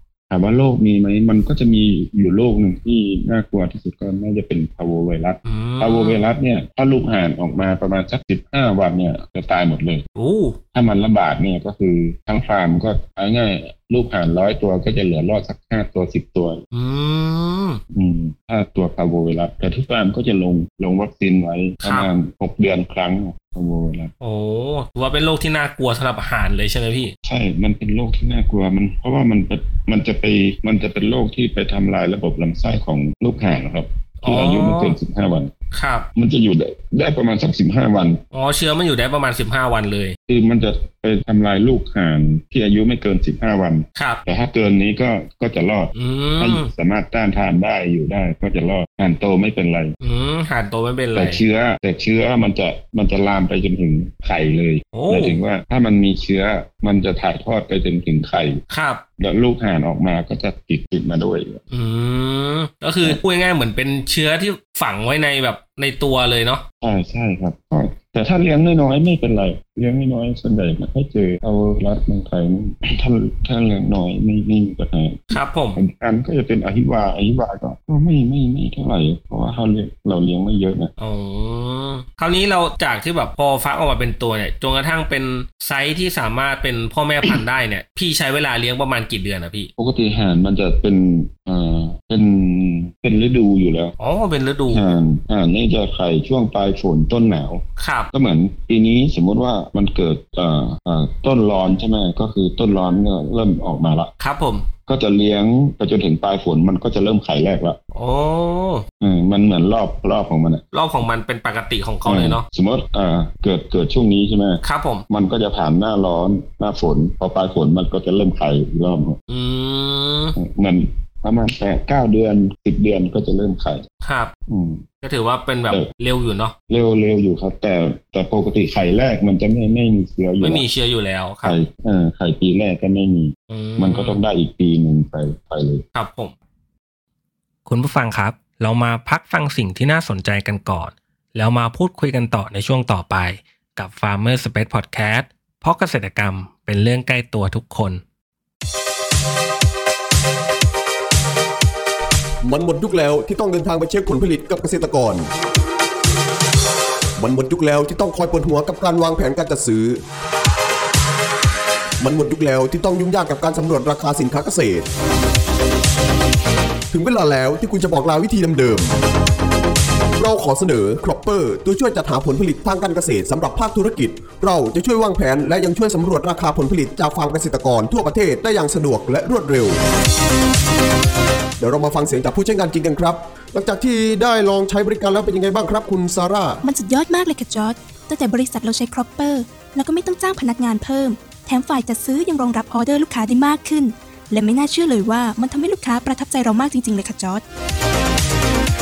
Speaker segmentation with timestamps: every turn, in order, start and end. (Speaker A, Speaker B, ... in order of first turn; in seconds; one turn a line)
Speaker A: 0.3-10.0
Speaker B: 5.4-6.2
Speaker B: 10.1-10.6
Speaker A: 10.7-16.6
Speaker B: 16.7-17.8
Speaker A: 17.9-24.1
Speaker B: 21.8-22.1
Speaker B: 24.2-27.1
Speaker A: 27.2-35.5
Speaker B: 34.2-35.0
Speaker B: 35.7-36.1
Speaker A: 36.1-38.2
Speaker B: 38.3-40.2
Speaker A: 40.3-49.9
Speaker B: 44.0-44.2
Speaker B: 45.9-46.7
Speaker B: 50.0-51.4
Speaker A: 51.1-58.6
Speaker B: 54.9-55.4
Speaker B: 58.7-59.0
Speaker A: 59.2-61.6
Speaker B: 61.7-66.6
Speaker A: 66.8-80.9
Speaker B: 75.3-75.8
Speaker B: 81.0-89.7
Speaker A: 89.8-93.9
Speaker B: 94.0-94.8
Speaker A: 94.7-104.1
Speaker B: 97.8-98.1
Speaker B: 104.2-104.7
Speaker A: 104.8-107.8
Speaker B: 107.9-108.8
Speaker A: 109.0-110.6
Speaker B: 110.7-112.5
Speaker A: 112.0-119.2
Speaker B: 114.6-115.0
Speaker B: 119.3-120.3
Speaker A: 120.4-123.8
Speaker B: 124.0-124.3
Speaker A: 124.5-124.8
Speaker B: 125.0-126.5
Speaker A: 126.7-130.6
Speaker B: 130.4-131.6
Speaker A: 131.4-135.8
Speaker B: 133.5-134.2
Speaker B: 135.9-136.3
Speaker B: 137.7-148.0
Speaker C: 152.4-155.3
Speaker C: 157.2-160.0
Speaker C: 162.0-164.8
Speaker C: 166.9-168.9
Speaker C: 170.2-179.8
Speaker C: 181.6-186.6
Speaker D: 186.6-197.4